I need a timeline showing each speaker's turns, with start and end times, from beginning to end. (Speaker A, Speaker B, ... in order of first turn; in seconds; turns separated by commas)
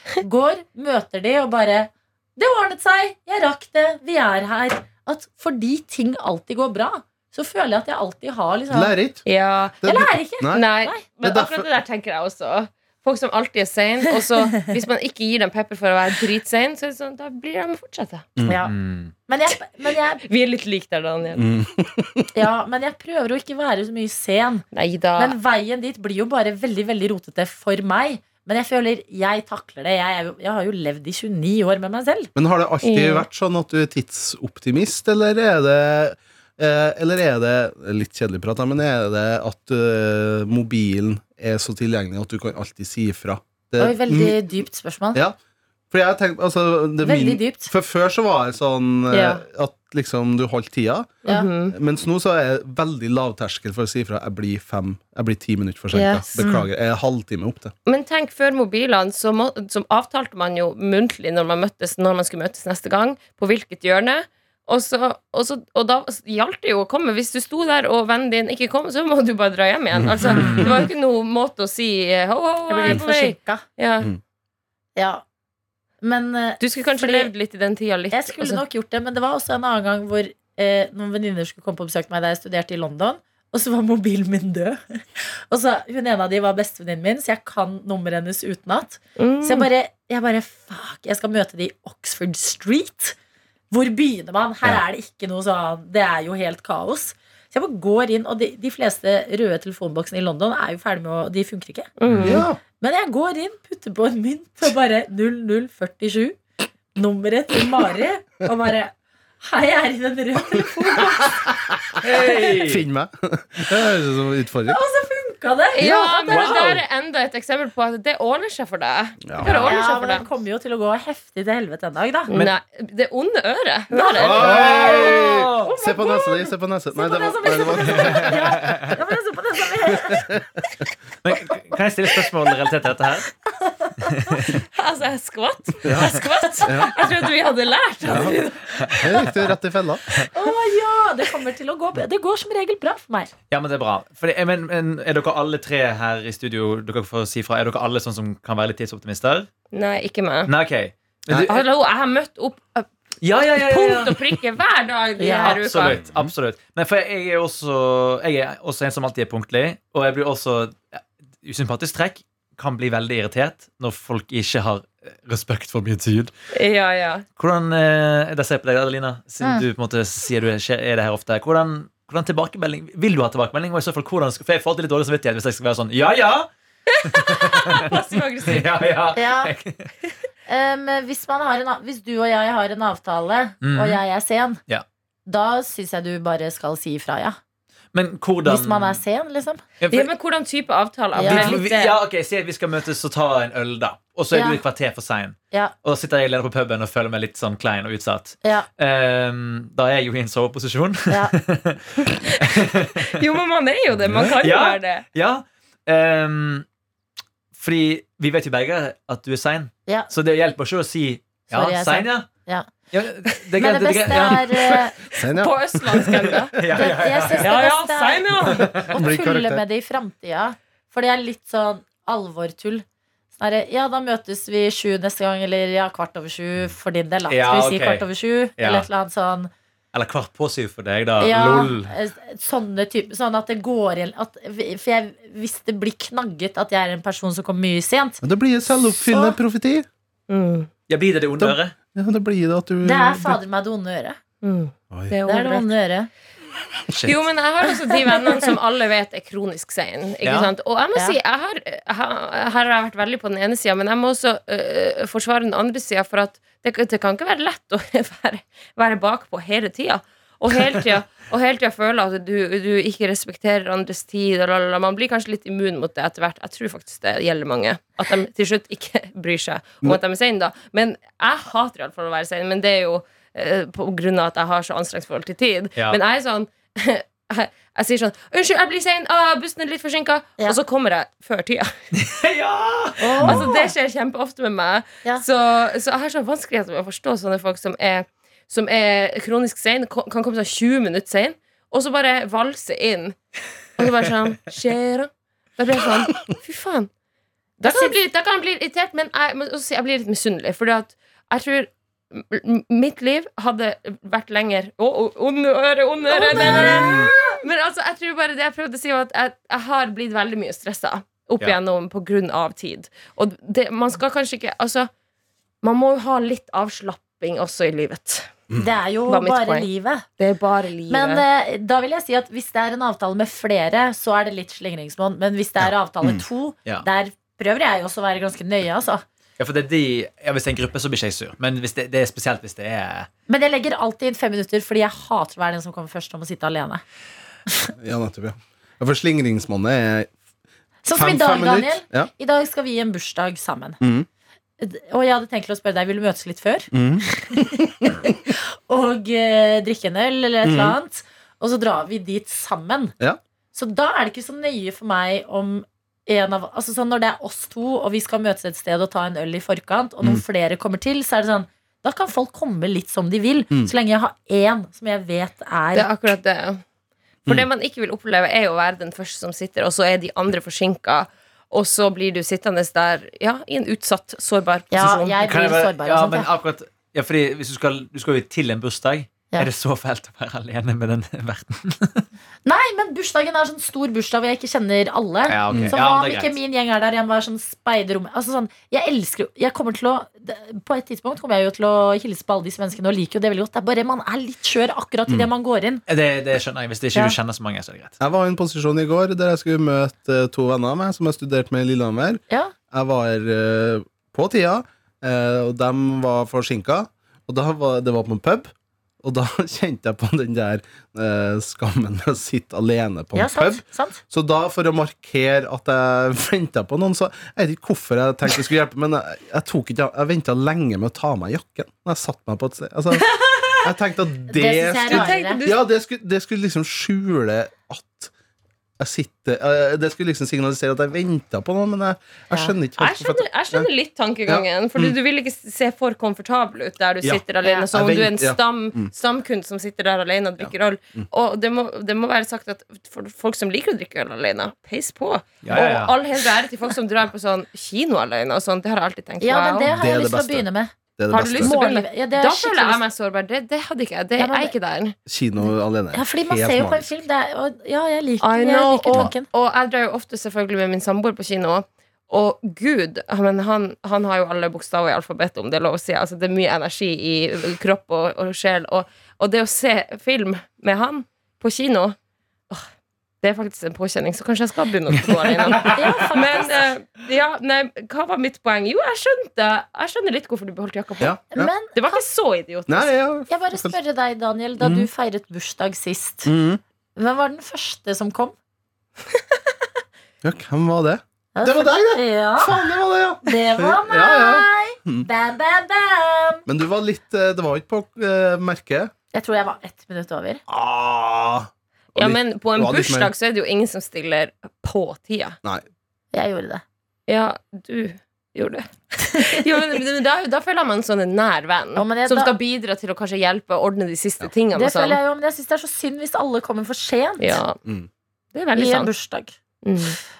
Speaker A: 0.2-8.9, Speaker B: 8.7-9.2, Speaker C: 9.3-9.8, Speaker B: 9.8-10.7, Speaker A: 9.8-11.0, Speaker C: 10.5-18.3, Speaker B: 11.2-11.7, Speaker A: 18.4-18.8, Speaker D: 18.7-19.1, Speaker A: 19.3-20.2, Speaker C: 20.2-21.5, Speaker B: 21.4-22.3, Speaker A: 22.3-24.6, Speaker C: 24.7-25.4, Speaker A: 25.2-32.3, Speaker B: 32.4-44.4, Speaker C: 32.8-33.3, Speaker A: 43.8-45.2, Speaker B: 45.9-57.7, Speaker A: 47.0-47.7, Speaker A: 49.1-49.4, Speaker C: 51.2-51.7, Speaker C: 55.9-56.4, Speaker A: 56.4-56.7, Speaker C: 57.9-74.1, Speaker D: 70.3-70.8, Speaker A: 72.7-73.6, Speaker A: 75.0-75.2, Speaker A: 76.0-77.3, Speaker C: 76.6-78.6, Speaker A: 78.1-93.2, Speaker C: 89.2-89.7, Speaker A: 93.7-101.9, Speaker C: 102.0-102.5, Speaker D: 102.1-102.4, Speaker B: 102.2-102.6, Speaker A: 102.8-106.4, Speaker A: 107.0-111.5, Speaker D: 112.0-112.8, Speaker B: 112.3-114.8, Speaker A: 114.7-116.4, Speaker C: 115.8-120.3, Speaker D: 115.8-116.8, Speaker B: 119.2-119.7, Speaker D: 119.4-119.7, Speaker A: 119.6-122.3, Speaker C: 122.3-124.7, Speaker A: 123.9-130.3, Speaker B: 124.2-128.8, Speaker D: 124.2-125.7, Speaker D: 128.0-128.9, Speaker B: 129.9-130.4, Speaker D: 131.2-133.4, Speaker A: 133.6-134.4, Speaker D: 134.0-134.6, Speaker C: 134.7-139.1, Speaker B: 135.8-136.9, Speaker B: 138.1-138.4, Speaker D: 138.8-139.3, Speaker B: 139.0-140.0, Speaker A: 140.3-143.3, Speaker D: 143.5-149.5, Speaker C: 149.7-150.5, Speaker D: 150.5-151.7, Speaker C: 151.5-152.9, Speaker D: 153.2-154.2, Speaker C: 153.5-156.0, Speaker A: 155.2-155.6, Speaker D: 155.6-166.3, Speaker B: 155.9-156.3, Speaker C: 166.5-167.2, Speaker D: 167.4-176.5, Speaker D: 177.0-177.9, Speaker C: 177.0-178.8, Speaker D: 178.5-179.9, Speaker A: 179.1-179.6, Speaker A: 180.5-184.6, Speaker D: 183.6-184.0, Speaker A: 185.3-187.4, Speaker D: 187.9-189.0, Speaker A: 188.5-189.6, Speaker D: 189.8-190.1, Speaker C: 189.9-192.0, Speaker A: 191.2-191.6, Speaker D: 191.2-203.2, Speaker A: 194.3-194.6, Speaker C: 203.1-205.1, Speaker D: 204.2-206.7, Speaker D: 207.6-212.3, Speaker A: 211.5-212.7, Speaker D: 212.9-214.9, Speaker A: 213.6-215.0, Speaker B: 215.1-216.5, Speaker C: 215.2-218.7, Speaker D: 216.6-217.5, Speaker A: 216.7-229.5, Speaker D: 218.4-218.8, Speaker B: 218.5-219.6, Speaker D: 227.3-228.1, Speaker D: 228.6-228.9, Speaker D: 229.9-231.9, Speaker A: 231.2-238.2, Speaker B: 238.2-239.9, Speaker A: 238.9-239.4, Speaker C: 240.3-240.7, Speaker D: 240.9-241.7, Speaker B: 241.4-243.4, Speaker A: 242.8-244.2, Speaker C: 244.4-245.7, Speaker A: 245.3-246.1, Speaker D: 246.9-247.2, Speaker C: 247.0-281.7, Speaker D: 250.2-250.5, Speaker D: 282.0-283.4, Speaker A: 283.0-283.7, Speaker C: 283.2-293.2, Speaker C: 293.8-296.9, Speaker C: 297.6-314.9, Speaker A: 297.6-298.0, Speaker A: 306.1-307.4, Speaker B: 306.3-307.1, Speaker C: 315.6-318.3, Speaker A: 318.6-320.1, Speaker C: 319.1-321.2, Speaker A: 320.9-329.0, Speaker D: 329.4-333.1, Speaker A: 333.3-336.8, Speaker B: 337.8-340.1, Speaker A: 340.8-343.8, Speaker B: 340.9-342.1, Speaker B: 343.8-344.1, Speaker A: 344.6-352.9, Speaker B: 346.7-348.1, Speaker B: 350.4-350.8, Speaker A: 353.5-365.9, Speaker C: 365.7-366.6, Speaker C: 367.3-375.2, Speaker A: 374.7-376.3, Speaker D: 375.2-382.1, Speaker A: 382.4-395.8, Speaker D: 385.3-386.4, Speaker B: 385.5-385.8, Speaker D: 395.9-398.0, Speaker B: 398.0-408.5, Speaker B: 409.0-428.1, Speaker A: 413.1-414.0, Speaker C: 423.0-423.6, Speaker A: 424.3-425.4, Speaker C: 424.9-425.6, Speaker B: 428.8-433.7, Speaker C: 432.8-449.7, Speaker B: 434.3-435.0, Speaker B: 437.0-438.9, Speaker B: 440.4-441.0, Speaker D: 445.4-445.9, Speaker A: 449.2-452.8, Speaker B: 449.7-450.5, Speaker B: 451.0-451.5, Speaker C: 451.1-454.9, Speaker A: 454.2-454.5, Speaker B: 455.1-457.0, Speaker A: 455.9-459.3, Speaker C: 458.2-472.0, Speaker C: 473.2-481.2, Speaker D: 475.4-475.7, Speaker A: 475.7-476.6, Speaker B: 481.0-481.5, Speaker A: 481.3-482.0, Speaker C: 481.7-482.9, Speaker B: 482.7-483.8, Speaker A: 483.3-486.3, Speaker B: 484.6-484.9, Speaker B: 486.2-486.6, Speaker A: 487.0-488.4, Speaker B: 490.2-495.1, Speaker A: 491.4-492.7, Speaker A: 493.2-496.4, Speaker B: 496.5-498.9, Speaker A: 499.1-500.4, Speaker B: 500.5-503.1, Speaker C: 502.0-505.4, Speaker A: 506.1-506.6, Speaker C: 507.1-515.0, Speaker A: 511.8-512.3, Speaker A: 514.5-517.4, Speaker C: 517.2-517.6, Speaker C: 518.3-518.9, Speaker A: 518.6-519.3, Speaker C: 519.6-520.0